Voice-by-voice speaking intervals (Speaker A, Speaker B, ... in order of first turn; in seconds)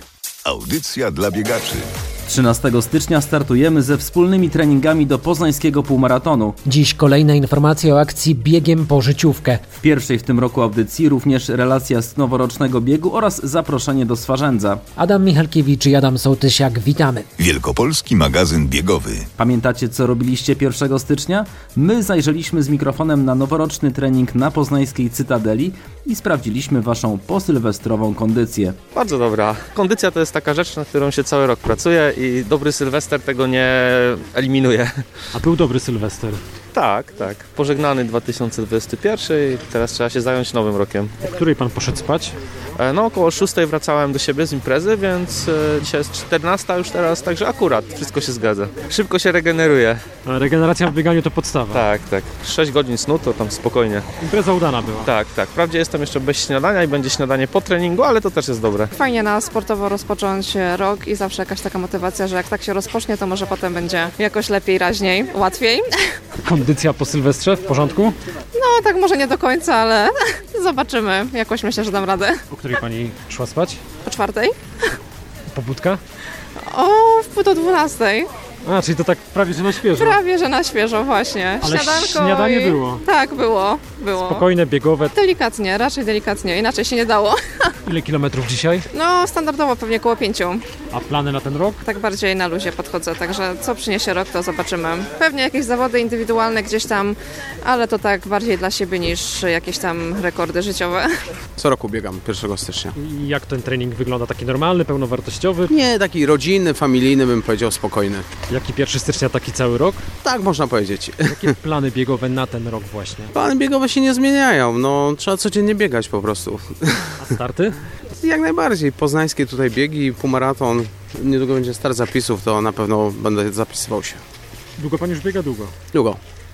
Speaker A: 0.5-1.8, 17.4-19.3
Speaker B: 2.3-6.6, 9.8-14.8, 19.4-28.8
Speaker C: 6.7-9.6, 15.0-17.3
Speaker D: 29.0-35.0, 36.7-41.2, 42.8-50.0, 51.7-54.1, 55.1-58.9
Speaker E: 35.4-36.4, 41.3-42.4, 50.2-51.9, 54.2-55.1, 66.4-68.2, 72.5-73.8, 75.5-76.0, 78.7-80.2, 81.6-83.0, 84.2-85.1, 87.9-88.9, 90.9-91.8, 103.0-105.7, 108.5-110.0, 111.3-113.3, 117.2-117.8, 124.8-125.7
Speaker F: 59.0-65.9, 68.5-72.4, 74.0-74.6, 76.7-78.3, 80.0-84.5, 85.1-87.7, 88.9-90.6, 91.8-101.1
Speaker G: 101.6-102.9, 105.7-108.3, 110.2-111.6, 113.3-117.1, 118.2-124.2, 125.9-126.2